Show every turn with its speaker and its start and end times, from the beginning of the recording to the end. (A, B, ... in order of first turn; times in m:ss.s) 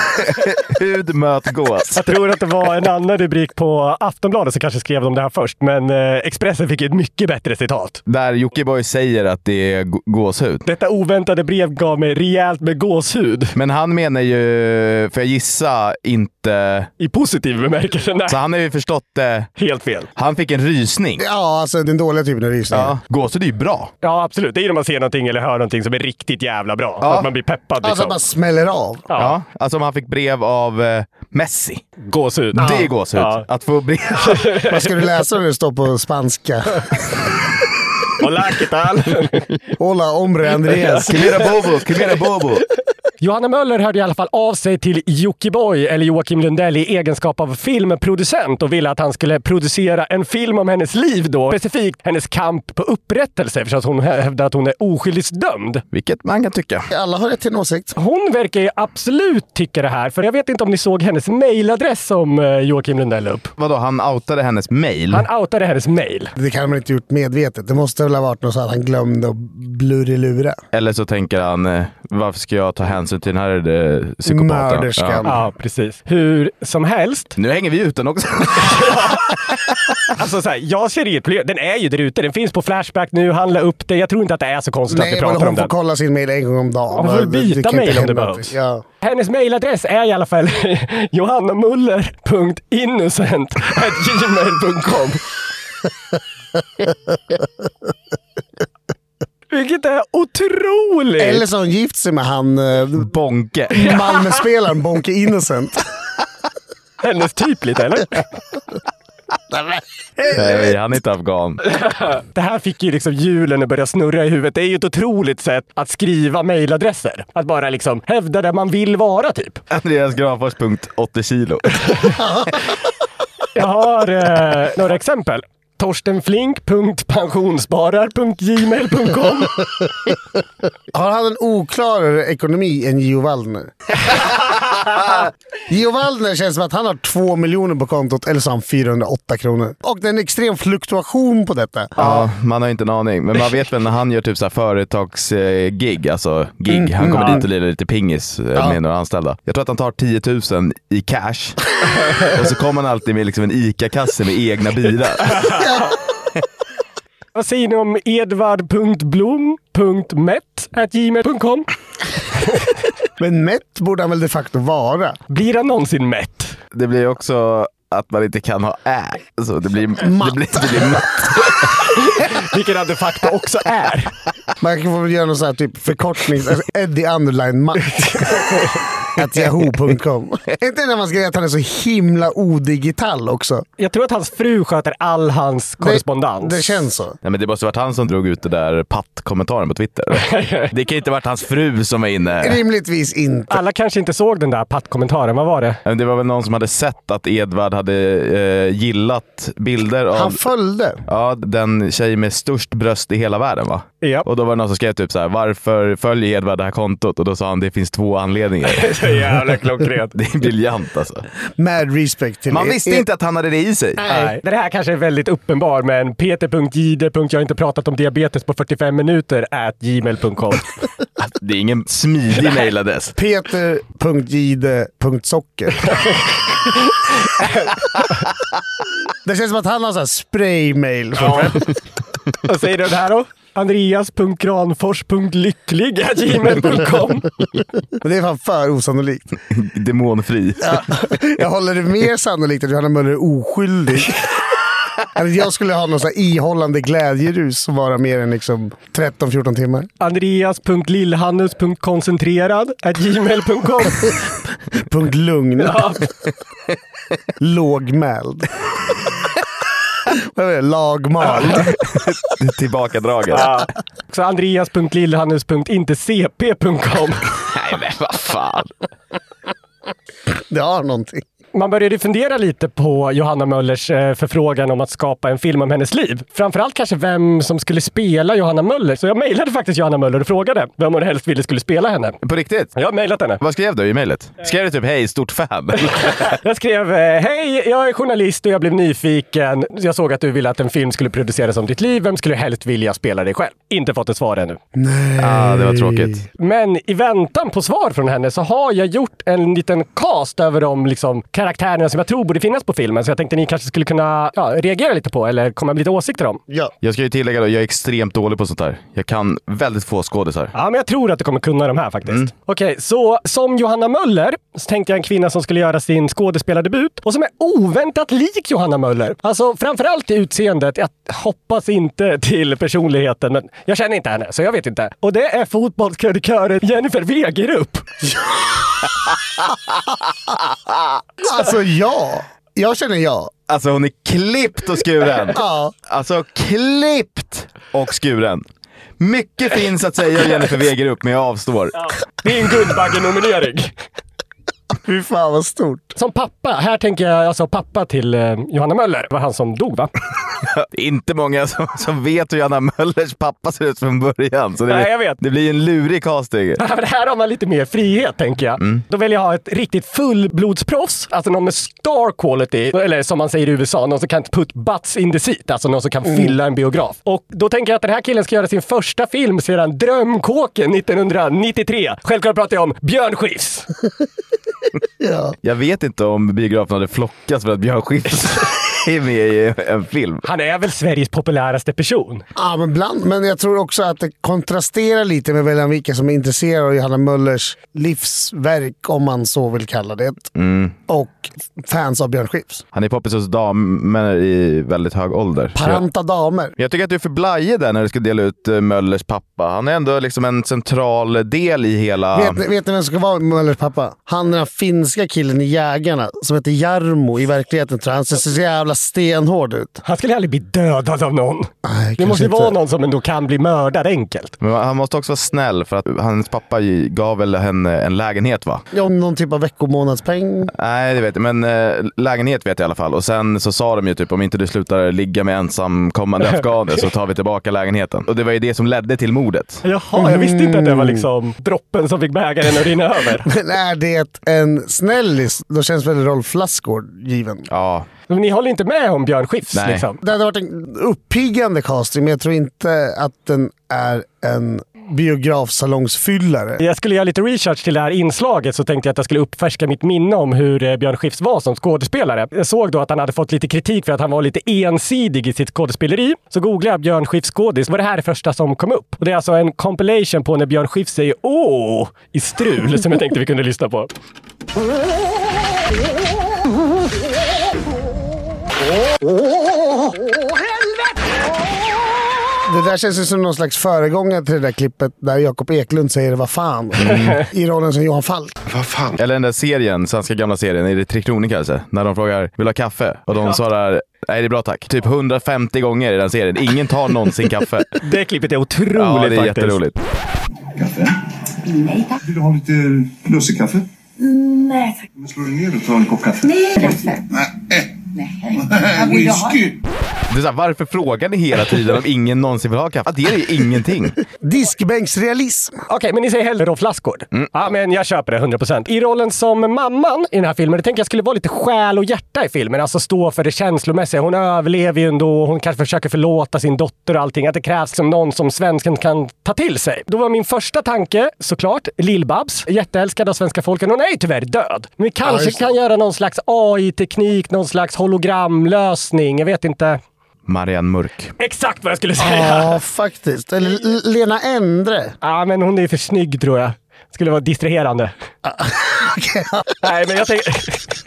0:00.4-0:02.0 A
0:01.9-0:08.0 B
0:08.0-0:10.6 A
0:10.6-0:13.5 B
0:13.5-0:16.9 A
0:17.0-0:18.4 B
0:18.3-0:19.5 A
0:19.6-0:20.1 B
0:20.2-0:21.2 A
0:21.2-0:23.0 C
0:22.7-0:23.9 A
0:24.0-0:28.2 B
0:27.0-0:27.3 A
0:27.8-0:29.1 C
0:29.2-0:31.8 A
0:32.0-0:33.4 B
0:32.5-0:34.5 A
0:34.3-0:34.8 B
0:34.7-0:36.8 C
0:38.2-0:39.5 B
0:39.8-0:41.3 C
0:40.7-0:41.1 B
0:41.0-0:42.6 A
0:43.2-0:55.8 B
0:55.9-0:56.9 A
0:56.9-0:57.9 C
0:58.0-1:03.5 B
1:03.6-1:05.2 A
1:05.1-1:06.3 B
1:06.4-1:10.6 C
1:10.7-1:15.2 A
1:14.2-1:15.4 C
1:15.2-1:17.3 B
1:17.4-1:18.9 A
1:18.6-1:19.4 B
1:20.1-1:25.7 B
1:24.9-1:28.8 C
1:26.9-1:35.2 B
1:39.5-1:41.4 B
1:41.2-1:43.1 C
1:43.0-1:43.9 A
1:43.7-1:45.8 C
1:47.0-1:48.2 B
1:49.5-1:50.6 C
1:50.3-1:51.6 A
1:51.8-1:59.6 B
1:59.7-2:01.9 A
2:02.2-2:02.5 C
2:03.5-2:09.6 B
2:10.9-2:13.7 C
2:15.7-2:22.2 C
2:22.0-2:31.6 A
2:26.7-2:27.4 C
2:32.2-2:35.5 A
2:37.3-2:41.7 B
2:43.2-2:45.2 C
2:45.3-2:46.6 B
2:46.7-2:51.5 A
2:50.0-2:51.0 C
2:51.5-2:54.1 B
2:54.6-2:58.4 C
2:57.9-2:58.8 B
2:59.1-3:03.6 C
3:03.8-3:06.8 B
3:05.8-3:07.2 C
3:07.2-3:12.6 A
3:10.1-3:10.7 B
3:12.4-3:13.6 C
3:13.5-3:15.8 B
3:15.8-3:20.4 A
3:20.1-3:21.0 C
3:21.1-3:29.1 A
3:28.7-3:30.1 B
3:30.2-3:31.2 A
3:31.6-3:33.0 C
3:32.5-3:34.0 A
3:34.0-3:34.3 C
3:34.1-3:40.7 B
3:41.2-3:43.1 A
3:43.2-3:45.8 C
3:45.9-3:47.7 B
3:49.2-3:51.6 C
3:51.2-3:51.6 B
3:52.4-3:57.3 B
3:58.0-3:59.2 C
3:59.5-4:01.0 A
4:00.6-4:04.2 C
4:05.1-4:09.9 C
4:10.0-4:14.1 B
4:14.7-4:15.9 C
4:15.6-4:16.1 B
4:17.4-4:18.5 C
4:20.1-4:21.7 C
4:21.8-4:23.5 A
4:23.3-4:27.3 B
4:27.5-4:28.7 A
4:30.5-4:31.2 C
4:31.5-4:42.2 B
4:42.2-4:42.7 A
4:42.8-4:43.4 B
4:43.4-4:46.3 A
4:46.0-4:54.6 B
4:54.7-4:56.2 C
4:55.2-4:56.2 A
4:56.4-5:06.4 B
5:06.8-5:10.5 A
5:10.5-5:27.8 B
5:28.0-5:28.5 C
5:31.2-5:33.3 C
5:33.5-5:38.4 A
5:35.3-5:35.7 C
5:39.0-5:41.7 A
5:41.9-5:43.7 B
5:44.8-5:45.9 C
5:46.0-5:49.9 B
5:50.6-5:56.6 A
5:54.7-5:55.2 B
5:56.6-6:13.7 B
6:15.0-6:15.3 C
6:15.4-6:20.2 A
6:20.2-6:22.2 B
6:22.3-6:30.3 C
6:30.3-6:30.8 A
6:30.9-6:32.6 C
6:32.7-6:35.8 A
6:35.5-6:36.5 C
6:36.6-6:42.4 A
6:42.1-6:49.8 C
6:49.8-6:54.4 B
6:51.6-6:52.5 C
6:54.4-6:58.6 A
6:58.7-7:00.5 C
7:00.5-7:09.6 A
7:09.6-7:13.3 B
7:10.0-7:11.0 C
7:13.2-7:17.5 C
7:17.5-7:17.9 A
7:18.1-7:20.0 B
7:19.5-7:19.8 A
7:20.0-7:26.6 C
7:26.6-7:43.9 B
7:49.4-7:50.2 C
7:52.4-7:58.4 C
7:56.8-7:57.2 A
7:58.5-7:58.9 D
7:58.9-8:07.7 A
8:07.8-8:09.6 B
8:08.8-8:09.8 A
8:10.5-8:11.0 D
8:11.4-8:12.0 E
8:12.0-8:13.6 D
8:14.0-8:14.9 E
8:15.0-8:17.0 D
8:16.3-8:17.0 E
8:18.0-8:19.4 E
8:18.5-8:19.5 D
8:20.1-8:24.0 A
8:24.2-8:25.6 C
8:25.7-8:49.8 B
8:45.0-8:45.5 C
8:50.3-8:51.1 A
8:51.2-8:52.5 B
8:52.0-8:54.9 C
8:55.0-8:57.9 B
8:58.2-8:59.5 C
8:59.6-9:00.6 B